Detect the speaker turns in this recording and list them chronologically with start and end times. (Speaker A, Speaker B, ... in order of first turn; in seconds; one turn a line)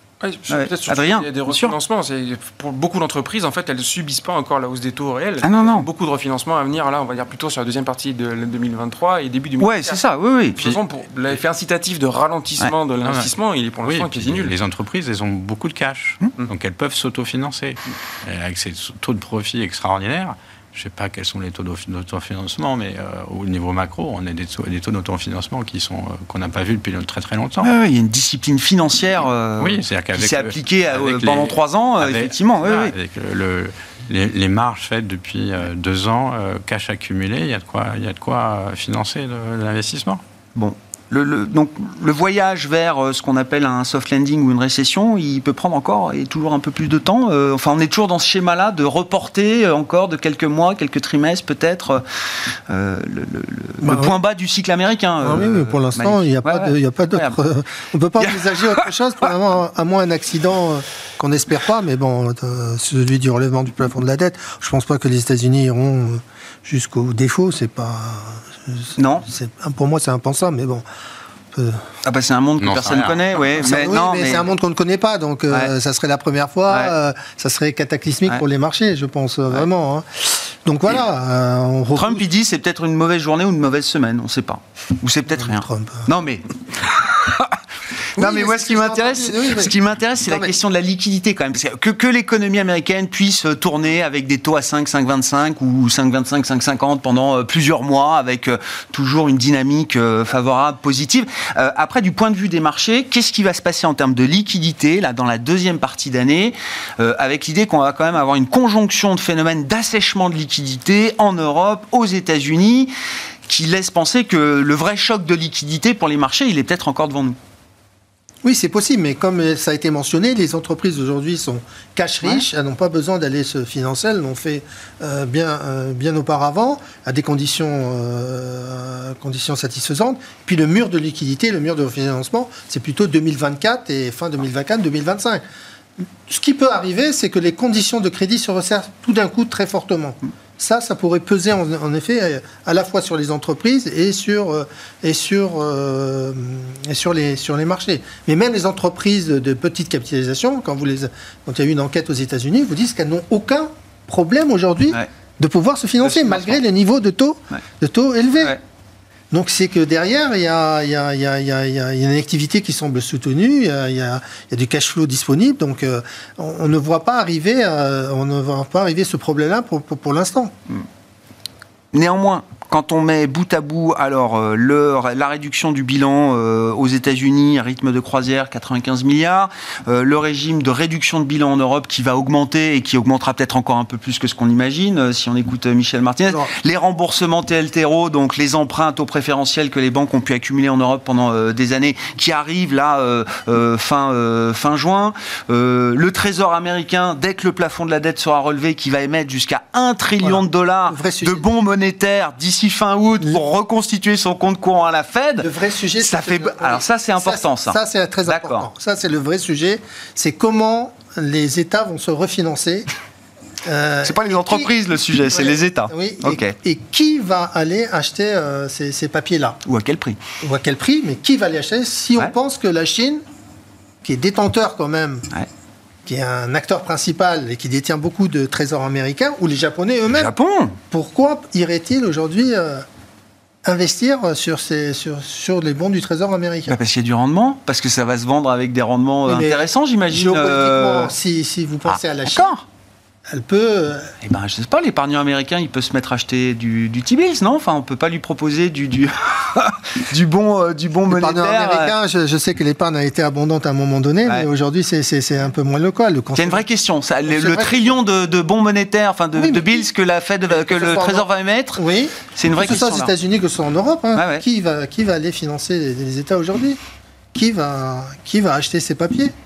Speaker A: 0.2-10.0
Speaker B: 0.5-1.7
Speaker B: 5.4-5.9
Speaker B: 9.6-10.6
Speaker A: 10.6-14.5
Speaker C: 13.0-13.3
Speaker C: 13.8-27.7
Speaker B: 27.6-32.9
Speaker C: 29.6-40.2
Speaker B: 40.5-57.4
Speaker D: 53.8-54.1
Speaker D: 55.2-70.8
Speaker B: 58.2-58.8
Speaker B: 69.0-69.2
Speaker D: 71.5-71.8
Speaker B: 72.0-74.5
Speaker C: 72.6-73.4
Speaker D: 73.6-82.2
Speaker B: 81.9-87.6
Speaker D: 85.4-86.1
Speaker B: 88.2-112.9
Speaker D: 88.2-89.7
Speaker B: 113.5-117.4
Speaker D: 118.4-135.4
Speaker D: 136.3-158.5
Speaker B: 156.0-156.6
Speaker D: 159.3-170.5
Speaker B: 171.9-205.5
Speaker D: 200.2-201.4
Speaker D: 205.4-212.9
Speaker B: 206.0-208.7
Speaker D: 213.6-214.7
Speaker B: 214.1-216.6
Speaker D: 215.3-219.6
Speaker B: 219.7-220.2
Speaker D: 220.4-223.2
Speaker D: 224.0-225.3
Speaker D: 226.1-230.3
Speaker B: 230.1-230.8
Speaker D: 230.9-232.8
Speaker D: 233.6-236.8
Speaker B: 236.7-241.1
Speaker D: 239.3-242.5
Speaker B: 241.9-242.6
Speaker D: 243.3-244.1
Speaker B: 244.2-251.9
Speaker D: 251.1-256.6
Speaker B: 256.4-261.8
Speaker D: 257.3-257.9
Speaker D: 259.4-259.8
Speaker D: 260.4-266.8
Speaker B: 262.3-263.1
Speaker B: 264.1-264.4
Speaker D: 267.3-269.3